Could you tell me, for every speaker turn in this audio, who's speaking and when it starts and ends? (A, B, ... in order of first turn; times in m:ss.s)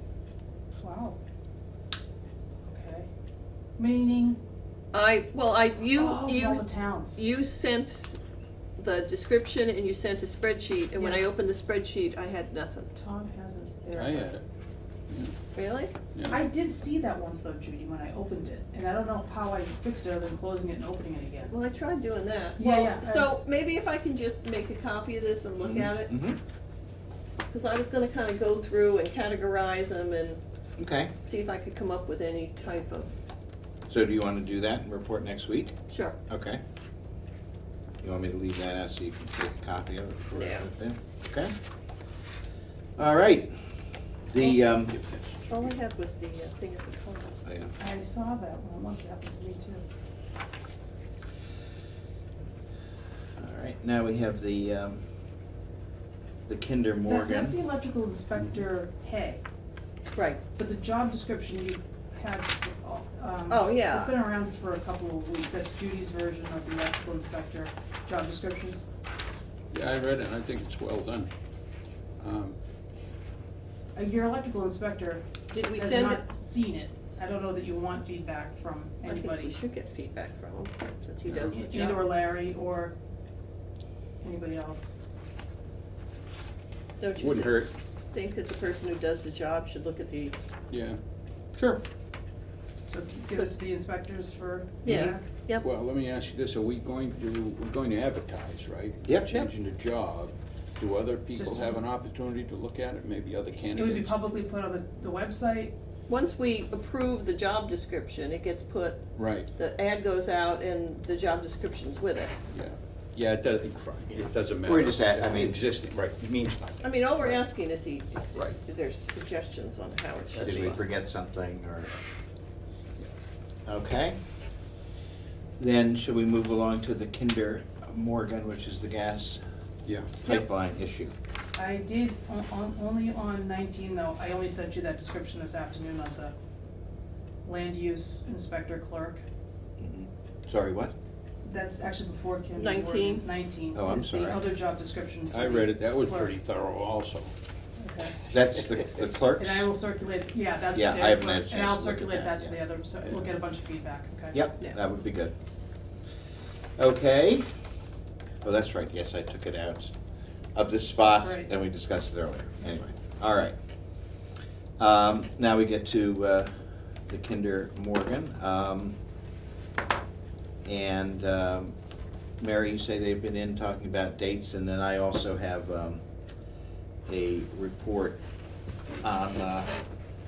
0:00.8-0:01.2 A
0:02.6-0:03.1 A
0:03.8-0:04.4 A
0:04.9-0:06.6 B
0:05.9-0:07.2 A
0:07.1-0:08.2 B
0:08.8-0:12.9 B
0:10.9-0:11.3 A
0:12.9-0:14.3 A
0:13.9-0:14.4 C
0:15.5-0:15.9 B
0:16.1-0:16.4 C
0:16.3-0:21.5 A
0:21.5-0:26.1 B
0:22.6-0:23.3 A
0:25.6-0:26.4 D
0:27.5-0:30.4 B
0:30.8-0:31.1 D
0:31.2-0:33.1 B
0:33.9-0:35.7 D
0:35.9-0:36.2 B
0:36.3-0:36.6 D
0:38.0-0:41.5 D
0:40.3-0:40.6 B
0:43.0-0:43.6 D
0:44.3-0:45.0 D
0:44.6-0:45.7 C
0:45.5-0:47.4 B
0:47.4-0:47.7 D
0:47.8-0:49.8 A
0:53.4-0:55.0 D
0:56.5-0:57.6 D
0:57.0-0:59.4 A
1:00.1-1:00.4 B
1:00.6-1:08.8 A
1:03.5-1:04.1 B
1:09.7-1:11.3 C
1:12.2-1:12.6 C
1:14.0-1:15.2 A
1:15.5-1:16.2 B
1:15.8-1:19.5 A
1:19.0-1:22.0 B
1:21.2-1:21.6 C
1:21.5-1:22.9 A
1:24.2-1:24.9 A
1:27.0-1:27.6 B
1:27.2-1:27.7 C
1:28.1-1:30.4 B
1:30.7-1:31.0 C
1:32.9-1:35.2 A
1:34.8-1:35.7 B
1:35.6-1:44.2 C
1:39.0-1:39.5 D
1:41.4-1:41.8 A
1:43.7-1:45.7 A
1:46.1-1:49.0 B
1:49.2-1:49.5 C
1:49.6-1:52.3 B
1:52.5-1:57.4 C
1:54.6-1:55.6 D
1:56.8-2:00.8 B
2:00.3-2:00.8 C
2:00.4-2:01.9 D
2:03.7-2:04.2 D
2:05.6-2:09.4 D
2:09.8-2:10.2 C
2:10.2-2:11.1 D
2:11.6-2:16.3 A
2:17.4-2:19.2 A
2:19.8-2:20.9 D
2:21.4-2:26.3 A
2:22.5-2:23.2 B
2:23.7-2:24.4 D
2:25.3-2:27.3 C
2:27.8-2:28.2 A
2:28.3-2:29.6 D
2:29.4-2:34.4 A
2:30.7-2:32.6 D
2:34.3-2:35.3 D
2:36.8-2:37.5 D
2:38.4-2:39.9 D
2:40.6-2:43.5 D
2:41.1-2:41.5 A
2:44.8-2:46.5 D
2:47.1-2:49.0 D
2:50.6-2:51.7 D
2:52.4-2:56.0 D
2:57.1-2:58.2 D
2:59.0-2:59.7 D